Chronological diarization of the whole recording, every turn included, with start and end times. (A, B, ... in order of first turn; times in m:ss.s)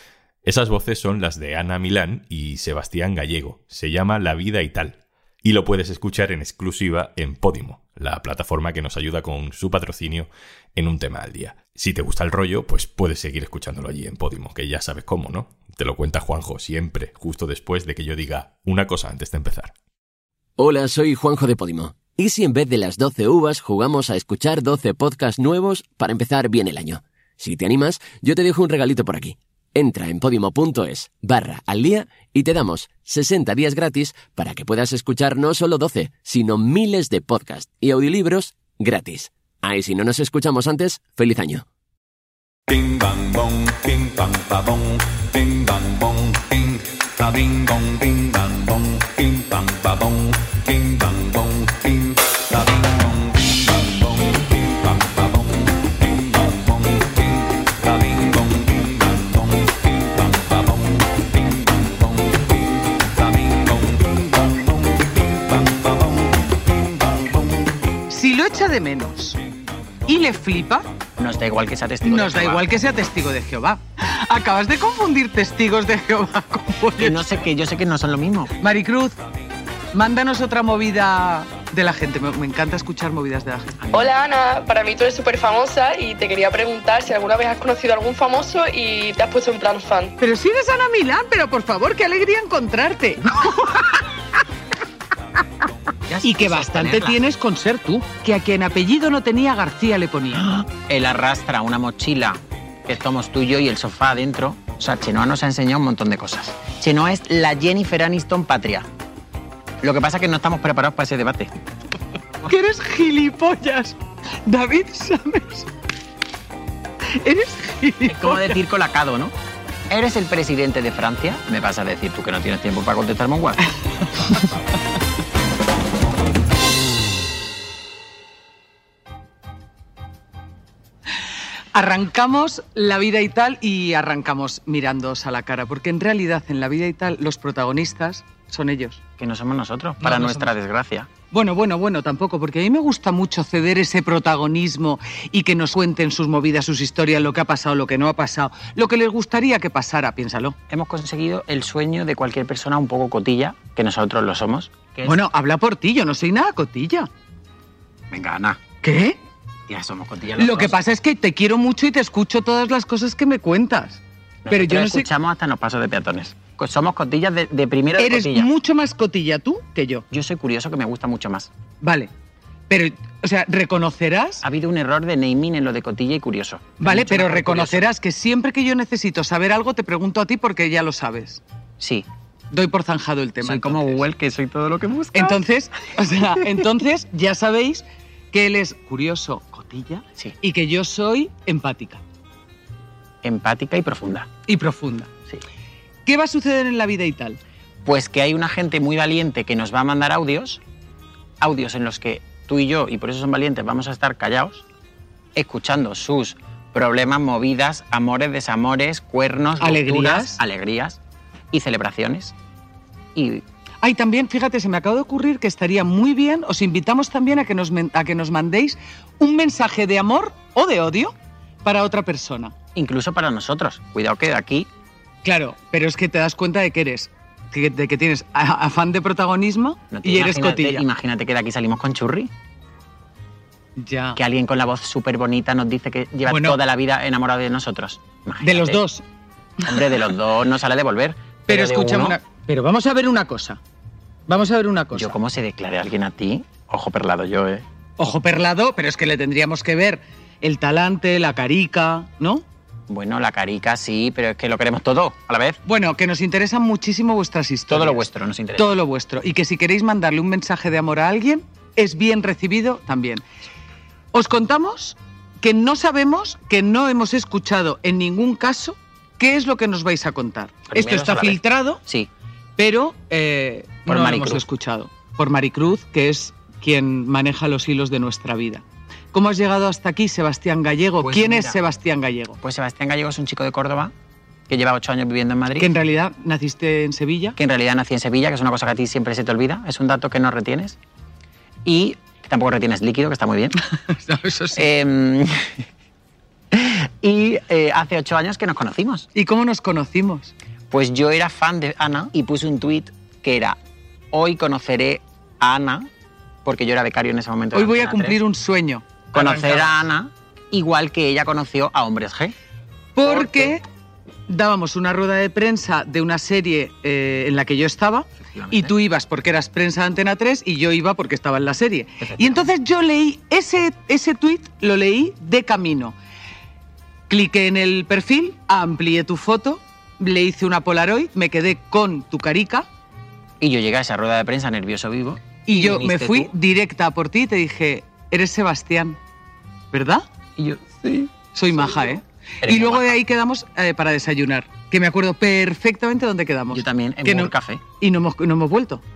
0:00.4-0:19.7 A
0:20.6-0:41.6 B
0:42.7-1:07.6 C
1:08.1-1:09.4 D
1:10.1-1:10.8 D
1:11.2-1:12.8 E
1:12.0-1:17.2 D
1:16.9-1:18.5 E
1:18.6-1:19.2 D
1:19.9-1:23.8 D
1:23.8-1:24.2 E
1:23.9-1:30.1 F
1:30.2-1:33.8 D
1:36.1-1:37.2 E
1:36.2-1:40.5 D
1:40.3-1:48.9 E
1:49.8-1:51.5 E
1:52.5-1:55.7 D
1:57.1-1:58.6 D
1:58.0-1:59.3 E
1:59.9-2:03.6 E
2:11.7-2:19.0 D
2:19.2-2:21.1 E
2:20.0-2:20.5 D
2:21.3-2:30.6 D
2:30.7-2:35.2 E
2:35.0-2:37.1 D
2:38.1-2:38.6 E
2:38.8-2:39.2 D
2:39.7-2:40.8 E
2:40.4-2:45.1 D
2:44.4-2:48.5 E
2:48.0-2:50.0 D
2:50.1-2:51.5 E
2:51.8-2:52.1 D
2:52.7-2:54.4 D
2:54.4-2:57.9 E
2:56.8-3:01.4 D
3:01.8-3:02.1 E
3:02.5-3:04.0 D
3:03.4-3:05.4 E
3:05.1-3:12.0 D
3:06.3-3:06.6 E
3:13.2-3:14.3 E
3:14.5-3:15.1 D
3:16.0-3:17.4 D
3:17.8-3:20.6 E
3:21.4-3:24.6 E
3:25.3-3:31.0 E
3:29.6-3:30.4 D
3:31.5-3:32.3 E
3:33.1-3:33.4 E
3:33.8-3:42.5 D
3:42.7-3:44.7 E
3:45.2-3:50.8 D
3:49.9-3:52.3 E
3:53.8-3:54.2 D
3:54.1-3:58.8 E
3:56.3-3:56.6 D
3:58.4-3:59.0 D
3:59.6-4:02.2 E
4:01.5-4:03.6 D
4:04.3-4:05.1 D
4:04.9-4:07.6 E
4:08.0-4:12.4 D
4:12.9-4:15.6 E
4:15.6-4:18.0 D
4:17.7-4:18.8 E
4:18.6-4:23.2 D
4:24.1-4:31.8 D
4:30.7-4:32.1 E
4:32.6-4:42.4 D
4:33.9-4:34.4 E
4:41.0-4:41.6 E
4:42.4-4:43.9 E
4:44.5-4:45.7 E
4:45.6-4:47.4 D
4:47.4-4:50.8 E
4:51.6-4:53.6 E
4:53.7-4:54.6 D
4:54.5-4:55.6 E
4:56.5-4:59.1 E
4:59.1-5:00.3 D
5:00.7-5:03.6 E
5:04.1-5:05.9 E
5:06.4-5:08.2 E
5:07.5-5:09.8 D
5:09.1-5:12.3 E
5:12.9-5:13.6 D
5:13.0-5:13.5 E
5:14.3-5:25.9 D
5:18.2-5:18.7 E
5:22.0-5:22.5 E
5:27.1-5:32.7 D
5:33.4-5:36.3 E
5:35.4-5:39.0 D
5:39.7-5:40.0 D
5:40.4-5:43.0 E
5:41.3-5:48.8 D
5:46.5-5:47.6 E